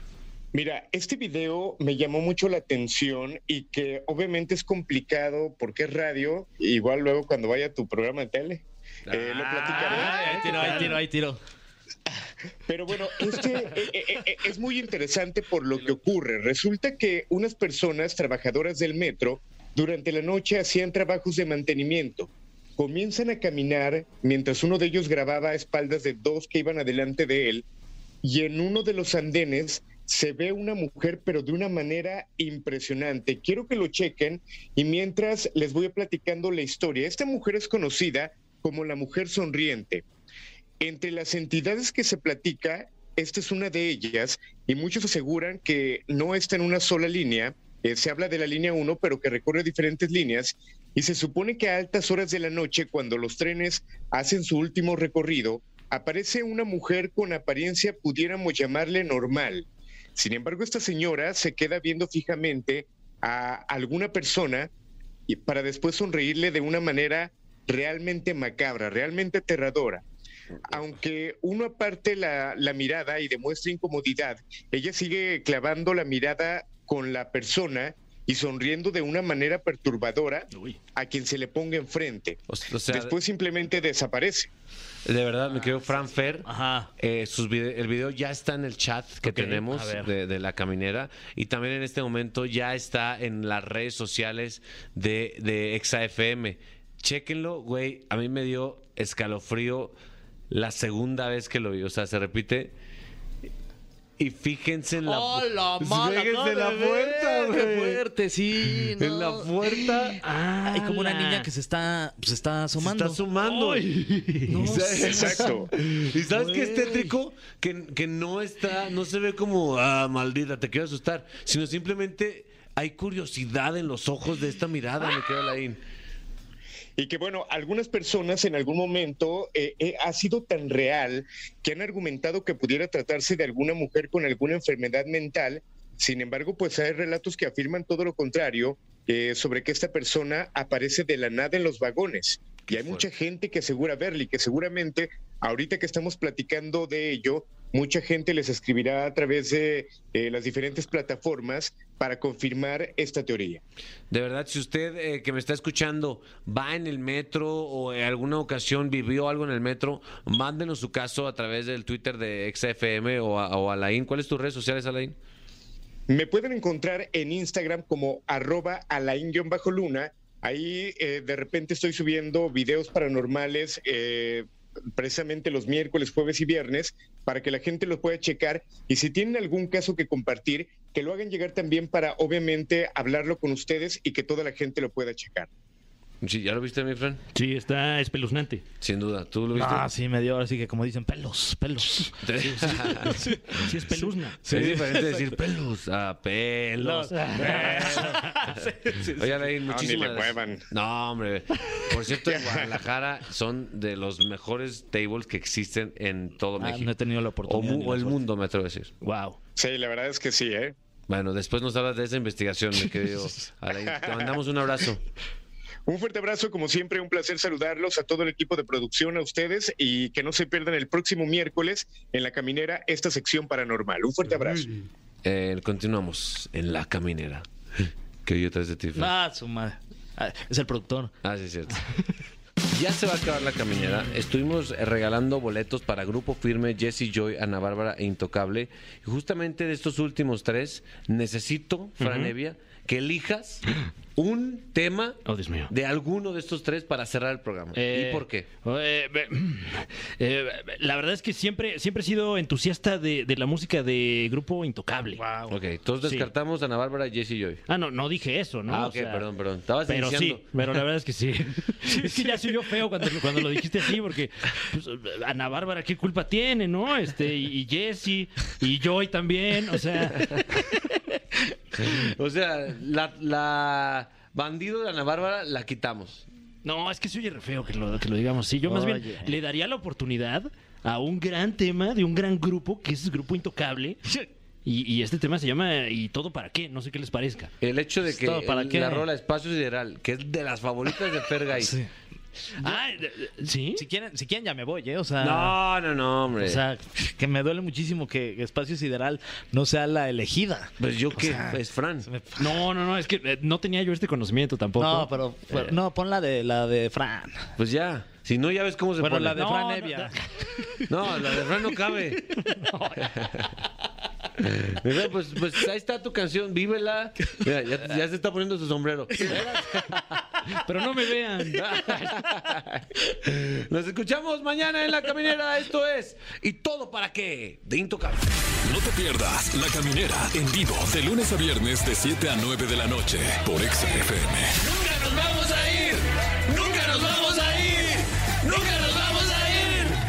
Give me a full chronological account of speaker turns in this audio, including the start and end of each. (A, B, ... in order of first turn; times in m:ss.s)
0:00.5-0:10.2 A
0:09.1-0:09.6 B
0:09.3-0:11.4 C
0:09.6-0:11.0 D
0:12.7-0:27.6 A
0:28.2-0:40.0 A
0:40.8-1:04.7 A
1:05.3-1:10.0 A
1:10.7-1:24.5 A
1:22.5-1:23.1 B
1:25.0-1:40.0 B
1:26.4-1:26.9 C
1:29.2-1:30.1 C
1:40.5-1:42.7 B
1:44.2-1:48.0 B
1:45.0-1:53.2 C
1:48.7-1:50.2 B
1:50.2-1:51.5 D
1:52.8-1:53.9 B
1:53.4-1:57.1 D
1:54.5-2:05.8 B
1:55.0-1:55.7 A
2:07.0-2:33.6 A
2:22.7-2:23.1 B
2:34.1-2:45.2 B
2:46.1-3:05.5 A
3:06.2-3:07.2 B
3:07.3-3:08.6 D
3:08.8-3:09.9 B
3:09.5-3:12.1 C
3:12.2-3:13.2 B
3:12.4-3:14.4 D
3:13.0-3:15.4 C
3:14.5-3:18.6 B
3:16.8-3:19.5 C
3:17.2-3:18.4 D
3:19.2-3:28.9 B
3:19.7-3:20.6 A
3:26.6-3:28.2 C
3:29.0-3:29.4 D
3:29.6-3:30.7 A
3:31.1-3:35.0 B
3:35.9-3:44.8 A
3:45.2-3:49.1 B
3:48.9-3:51.1 C
3:51.2-3:51.8 B
3:52.7-4:08.5 B
4:02.0-4:02.3 D
4:05.2-4:05.7 D
4:07.7-4:15.2 D
4:15.2-4:15.6 C
4:15.5-4:17.6 B
4:17.7-4:19.2 D
4:18.7-4:20.4 B
4:19.8-4:30.4 D
4:22.0-4:22.3 C
4:30.2-4:30.4 B
4:31.7-4:36.2 B
4:36.6-4:44.1 D
4:38.6-4:39.3 C
4:44.6-4:47.5 D
4:47.6-4:51.7 B
4:48.0-4:49.0 C
4:51.6-4:51.9 C
4:52.6-4:53.8 D
4:53.4-4:55.6 C
4:55.2-4:56.6 B
4:56.4-5:02.6 C
5:00.8-5:02.1 B
5:02.4-5:05.8 D
5:04.8-5:07.5 C
5:07.6-5:09.4 B
5:09.0-5:10.8 C
5:09.3-5:10.6 D
5:10.9-5:12.4 B
5:12.6-5:13.1 D
5:13.1-5:13.5 B
5:14.4-5:20.5 B
5:20.5-5:21.7 D
5:21.6-5:28.2 B
5:28.6-5:34.6 E
5:34.9-5:36.0 B
5:36.5-5:39.3 B